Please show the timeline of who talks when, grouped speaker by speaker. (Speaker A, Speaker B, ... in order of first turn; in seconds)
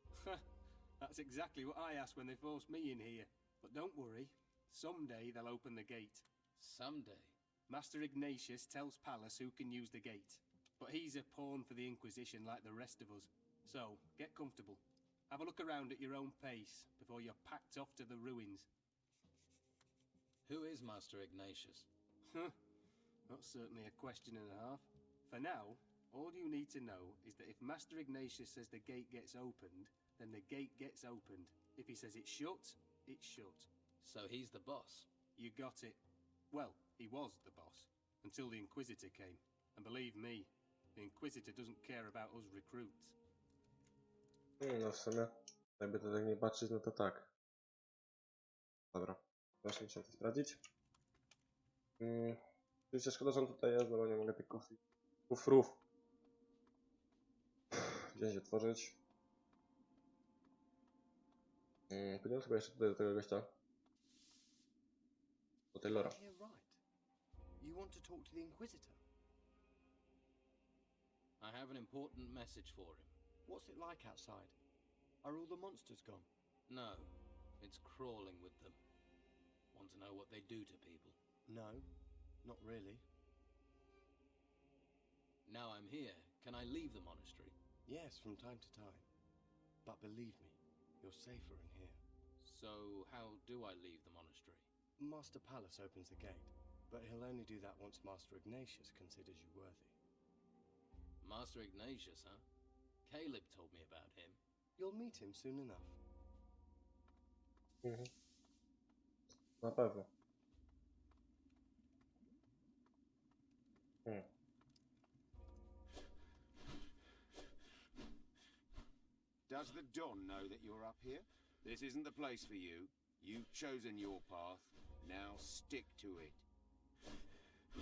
Speaker A: 1.0-6.2, 7.7-18.7, 22.3-22.6, 23.3-33.7, 35.4-36.0, 36.5-43.1
Speaker B: 6.6-7.3, 20.4-21.9, 34.0-35.1, 71.4-73.1, 76.7-78.8, 79.7-81.2, 85.5-87.6, 92.4-94.7, 101.2-102.4, 103.1-104.4
Speaker C: 44.6-47.3, 48.9-50.6, 52.0-55.8, 57.7-59.0, 61.9-63.5, 65.7-66.2, 107.8-108.1, 109.6-110.1
Speaker D: 65.9-66.8, 67.6-69.0, 73.5-74.5, 75.2-76.3, 81.5-81.9, 82.4-83.0, 87.9-89.1, 89.8-92.0, 95.0-100.0, 104.8-106.0
Speaker E: 119.5-126.4